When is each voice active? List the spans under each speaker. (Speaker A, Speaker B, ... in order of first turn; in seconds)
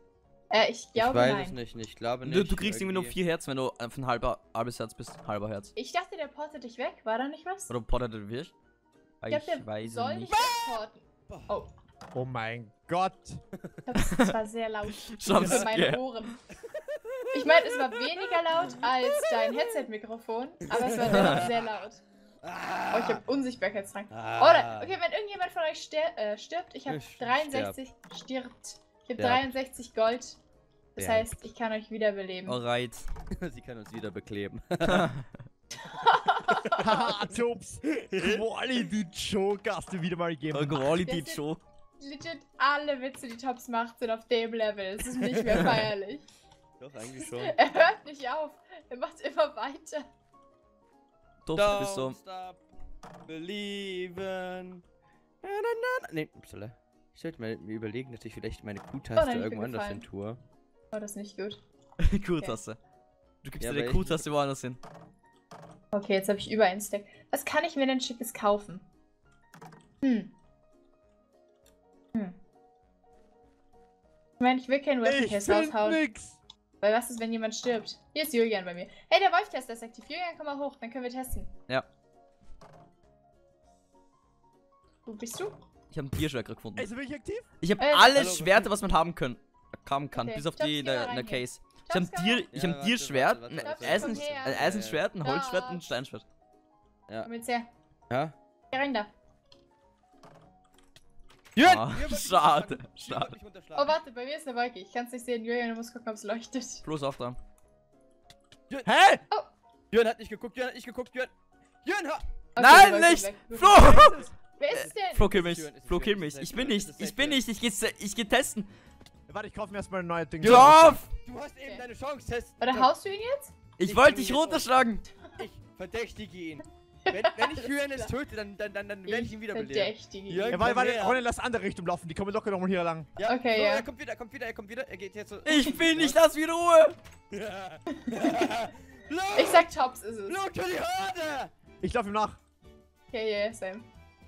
Speaker A: 0.5-1.6, 5.8-7.7, 9.3-11.7, 13.9-16.4, 17.3-22.0, 22.9-30.4, 30.9-32.6, 35.8-37.0, 41.0-41.4, 42.0-46.2, 47.2-50.1, 59.1-60.0, 60.9-61.6, 65.9-68.8, 70.0-70.3, 74.4-76.0, 76.8-81.5, 85.0-85.5, 87.8-88.2, 90.1-92.5, 93.6-96.0, 97.2-97.7, 98.7-99.1, 103.7-106.8, 112.5-115.3, 122.6-123.5, 127.1-128.1, 129.1-130.7, 133.2-133.9, 138.0-138.3, 139.3-140.4, 143.1-143.9
Speaker B: 0.9-3.2, 10.3-10.8, 15.4-15.7, 16.7-18.1, 19.1-19.5, 20.6-21.6, 22.4-23.2, 24.1-24.9, 26.9-27.8, 29.2-29.5, 33.4-35.1, 36.5-37.3, 37.9-38.4, 45.3-45.9, 46.8-47.5, 51.5-52.6, 53.3-54.8, 55.4-60.4, 63.6-64.2, 88.1-88.7, 92.5-95.0, 101.5-103.9, 109.9-112.2, 113.8-117.4, 120.4-122.9, 123.8-124.7, 125.4-131.2, 133.2-136.2, 137.3-139.7, 140.3-141.5
Speaker C: 2.2-5.7, 7.7-8.5, 9.2-10.3, 14.0-14.3, 15.2-16.3, 20.9-21.5, 31.0-31.2, 32.5-33.1, 34.9-35.2, 40.5-41.6, 51.4-52.2, 62.0-62.8, 63.4-64.8, 85.9-86.9, 87.6-96.2, 101.6-103.3, 106.8-107.4, 112.6-118.7, 120.4-121.1, 123.8-125.0, 135.4-136.9
Speaker D: 12.1-13.4, 36.8-40.9, 75.0-76.4, 86.8-87.5, 108.8-109.2, 119.3-120.9, 130.5-133.1, 141.8-142.4